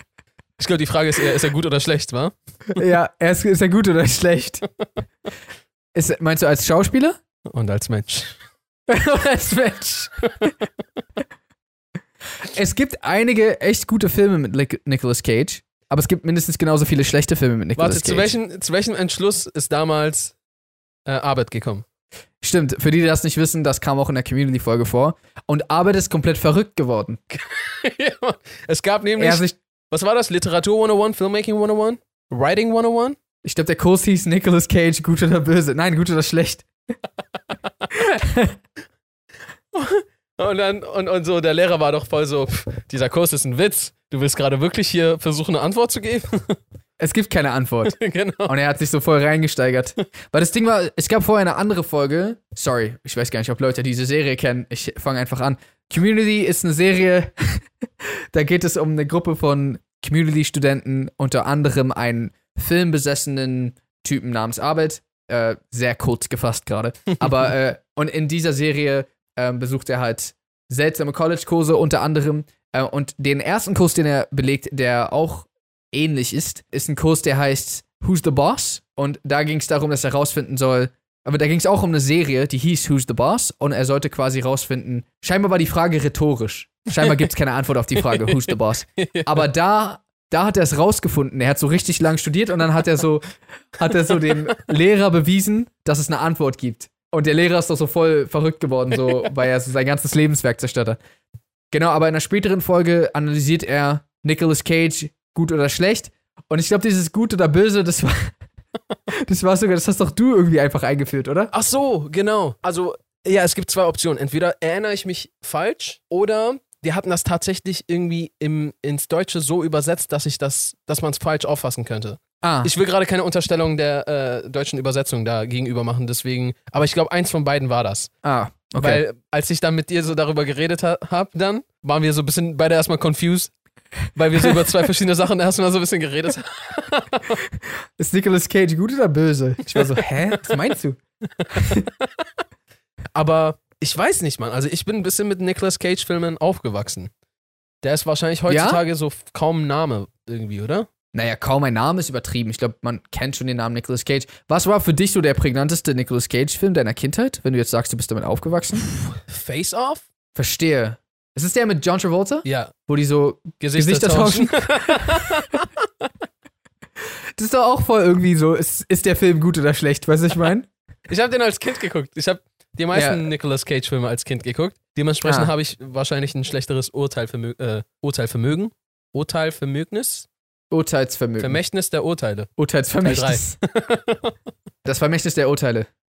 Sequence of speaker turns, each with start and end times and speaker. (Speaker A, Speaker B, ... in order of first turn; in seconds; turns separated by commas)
Speaker A: 0.6-2.8, Speaker B: 2.8-4.6, Speaker B: 5.9-7.2, Speaker A: 7.5-8.4, Speaker B: 8.9-10.5, Speaker B: 12.4-18.3, Speaker A: 17.8-20.4, Speaker A: 21.1-21.8, Speaker B: 22.4-27.2, Speaker A: 27.3-33.2, Speaker B: 29.2-29.6, Speaker B: 33.4-36.7, Speaker B: 37.9-38.5, Speaker A: 39.7-46.6, Speaker B: 47.0-101.0, Speaker A: 47.8-48.5, Speaker A: 87.0-87.3, Speaker A: 88.0-89.5, Speaker A: 98.9-99.3, Speaker B: 101.7-108.3, Speaker B: 109.1-111.5, Speaker A: 111.5-128.1, Speaker B: 122.4-122.7, Speaker B: 128.2-129.0, Speaker A: 128.8-133.5, Speaker A: 134.1-137.4, Speaker B: 138.0-141.0, Speaker A: 139.7-140.5, Speaker A: 141.4-142.2, Speaker B: 141.5-141.8, Speaker A: 143.2-147.1, Speaker A: 147.8-150.9, Speaker B: 148.5-148.8, Speaker B: 151.1-158.8, Speaker A: 159.2-160.1, Speaker B: 160.3-165.2, Speaker A: 162.4-162.7, Speaker A: 163.6-166.1, Speaker B: 167.3-170.7, Speaker A: 171.1-180.3, Speaker B: 172.9-173.2, Speaker B: 175.2-175.5, Speaker B: 180.7-181.6, Speaker A: 181.4-182.5, Speaker B: 182.6-183.5, Speaker A: 183.0-184.3, Speaker B: 184.8-185.9